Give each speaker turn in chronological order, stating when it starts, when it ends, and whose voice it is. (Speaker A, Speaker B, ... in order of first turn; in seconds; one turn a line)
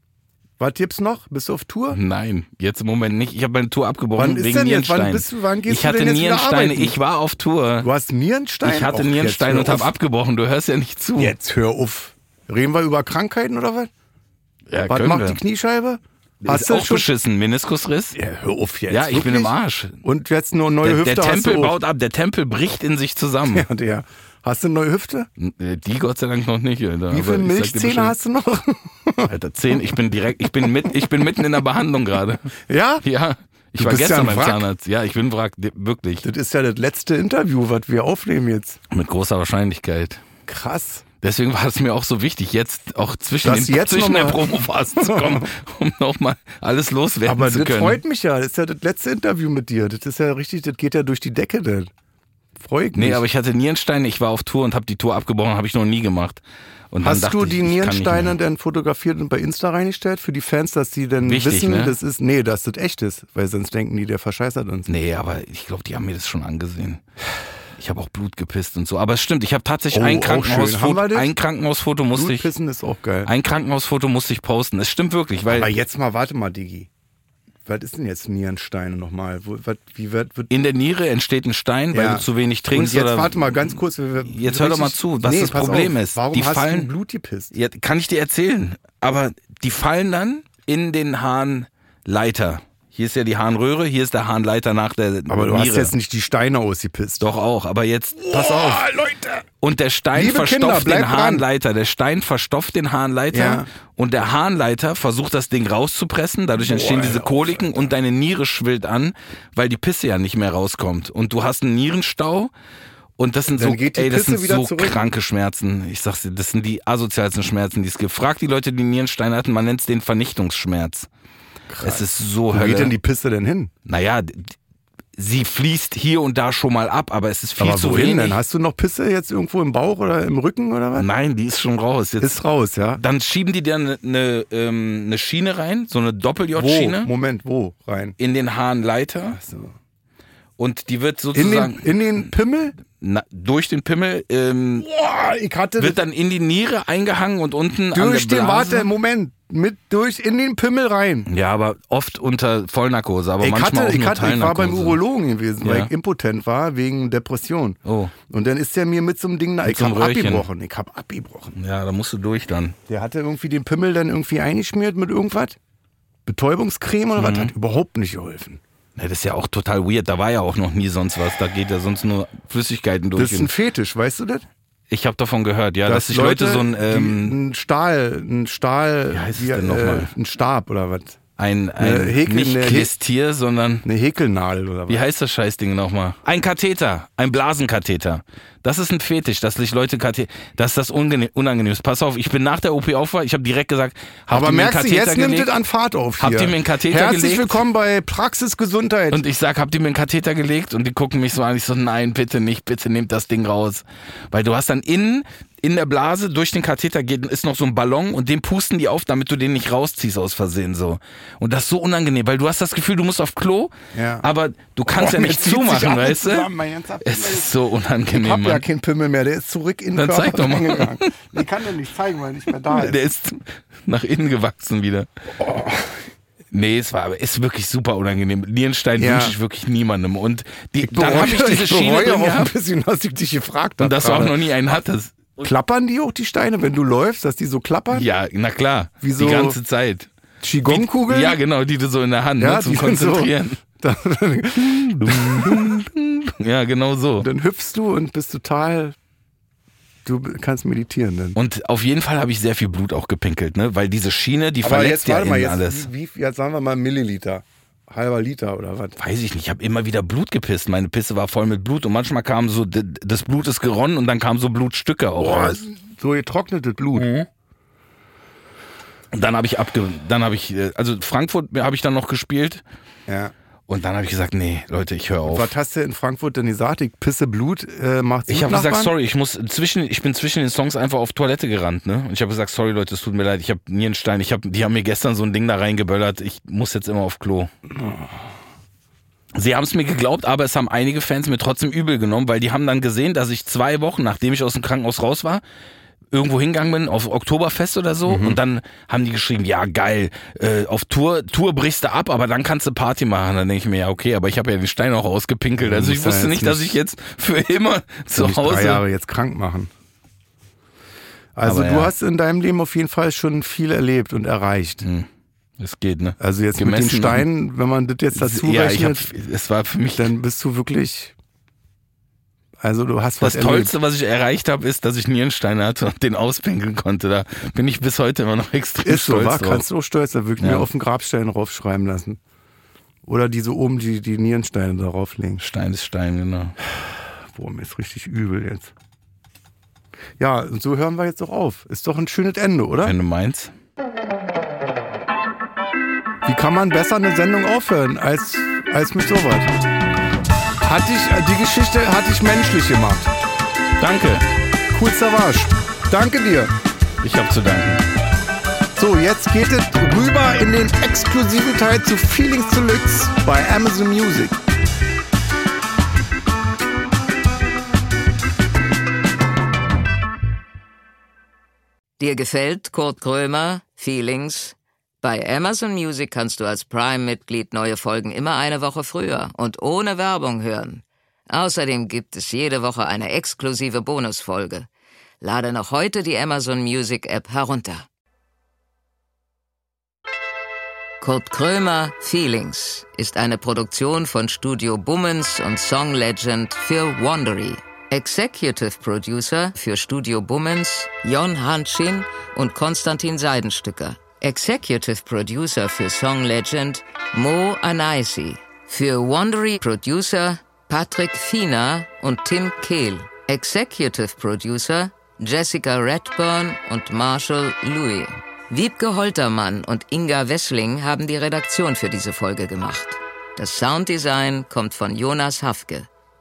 Speaker A: 0.6-2.0
Speaker B: 1.9-7.9
Speaker A: 4.2-7.0
Speaker A: 7.8-9.9
Speaker B: 8.6-11.3
Speaker A: 11.2-13.9
Speaker B: 14.7-15.4
Speaker A: 14.9-17.1
Speaker B: 16.4-18.2
Speaker A: 18.1-21.8
Speaker B: 18.9-20.0
Speaker B: 20.8-23.6
Speaker A: 23.5-25.3
Speaker B: 25.4-28.1
Speaker A: 27.1-30.0
Speaker B: 29.3-32.5
Speaker A: 30.6-31.1
Speaker A: 32.7-33.0
Speaker B: 33.0-36.2
Speaker A: 33.8-34.6
Speaker A: 36.2-38.8
Speaker B: 38.9-40.2
Speaker A: 40.5-41.0
Speaker B: 41.2-48.0
Speaker A: 43.4-45.5
Speaker A: 47.2-51.9
Speaker A: 52.6-53.2
Speaker B: 52.9-58.4
Speaker A: 57.0-64.9
Speaker B: 61.2-62.0
Speaker B: 64.9-67.0
Speaker B: 67.8-72.5
Speaker A: 69.9-71.3
Speaker A: 72.1-73.3
Speaker B: 73.2-75.7
Speaker A: 75.5-76.9
Speaker A: 77.6-80.5
Speaker B: 80.5-86.9
Speaker A: 81.9-87.5
Speaker B: 87.5-95.9
Speaker A: 95.3-97.3
Speaker B: 97.2-98.9
Speaker A: 98.2-99.5
Speaker B: 99.6-112.5
Speaker A: 100.1-101.5
Speaker A: 103.3-103.7
Speaker A: 106.6-107.9
Speaker B: 113.2-121.1
Speaker A: 113.5-115.1
Speaker A: 121.7-123.7
Speaker B: 121.8-122.9
Speaker B: 123.8-124.5
Speaker B: 125.2-128.4
Speaker A: 127.6-131.1
Speaker B: 130.9-132.4
Speaker A: 132.2-133.0
Speaker B: 133.0-137.1
Speaker A: 136.5-138.2
Speaker B: 138.2-139.4
Speaker A: 139.3-139.7
Speaker B: 140.6-142.2
Speaker A: 141.3-142.8
Speaker B: 142.9-144.9
Speaker A: 144.8-146.0
Speaker B: 145.8-148.9
Speaker A: 147.9-151.3
Speaker B: 151.3-155.0
Speaker A: 153.4-161.5
Speaker B: 155.6-155.9
Speaker B: 157.8-158.1
Speaker B: 159.6-160.5
Speaker B: 161.5-162.8
Speaker A: 162.9-165.6
Speaker A: 166.2-168.6
Speaker B: 167.2-167.5
Speaker B: 168.9-173.5
Speaker A: 173.2-174.4
Speaker B: 174.9-177.4
Speaker A: 175.8-181.2
Speaker B: 179.1-180.1
Speaker B: 181.4-183.8
Speaker A: 181.8-182.9
Speaker A: 183.8-185.1
Speaker B: 184.9-195.5
Speaker A: 194.3-199.2
Speaker B: 196.2-197.6
Speaker B: 199.1-213.7
Speaker A: 213.9-214.3
Speaker B: 214.2-216.5
Speaker A: 214.9-217.5
Speaker B: 217.0-218.6
Speaker A: 218.1-223.0
Speaker B: 219.9-221.3
Speaker B: 222.7-225.1
Speaker A: 225.4-226.1
Speaker B: 226.5-232.5
Speaker A: 229.0-229.3
Speaker A: 230.8-234.4
Speaker B: 233.8-235.4
Speaker A: 235.4-238.1
Speaker B: 237.9-240.1
Speaker A: 239.0-239.6
Speaker A: 240.4-241.4
Speaker B: 240.6-243.6
Speaker A: 242.4-245.8
Speaker B: 244.6-247.3
Speaker A: 247.2-249.0
Speaker A: 250.0-251.4
Speaker B: 251.3-255.9
Speaker A: 254.6-259.0
Speaker B: 259.0-265.6
Speaker A: 265.2-267.1
Speaker B: 266.9-267.3
Speaker B: 269.1-272.6
Speaker A: 273.1-273.3
Speaker B: 273.7-275.5
Speaker A: 275.2-278.9
Speaker B: 278.3-287.5
Speaker B: 289.3-295.4
Speaker B: 296.1-308.8
Speaker A: 298.1-298.4
Speaker A: 305.6-306.8
Speaker A: 308.1-309.7
Speaker A: 311.4-314.9
Speaker B: 311.4-311.9
Speaker B: 315.6-317.2
Speaker A: 316.2-319.1
Speaker B: 318.1-320.1
Speaker A: 319.9-321.1
Speaker A: 322.6-323.7
Speaker B: 323.2-329.6
Speaker A: 328.8-332.2
Speaker B: 330.4-330.7
Speaker A: 333.0-335.4
Speaker B: 335.4-336.6
Speaker A: 336.7-338.7
Speaker A: 340.2-343.0
Speaker B: 342.8-343.5
Speaker A: 346.2-349.5
Speaker A: 350.6-353.1
Speaker B: 353.8-354.3
Speaker A: 354.7-356.5
Speaker B: 357.0-357.8
Speaker A: 358.8-364.4
Speaker C: 372.0-384.7
Speaker C: 385.2-387.9
Speaker C: 391.0-425.9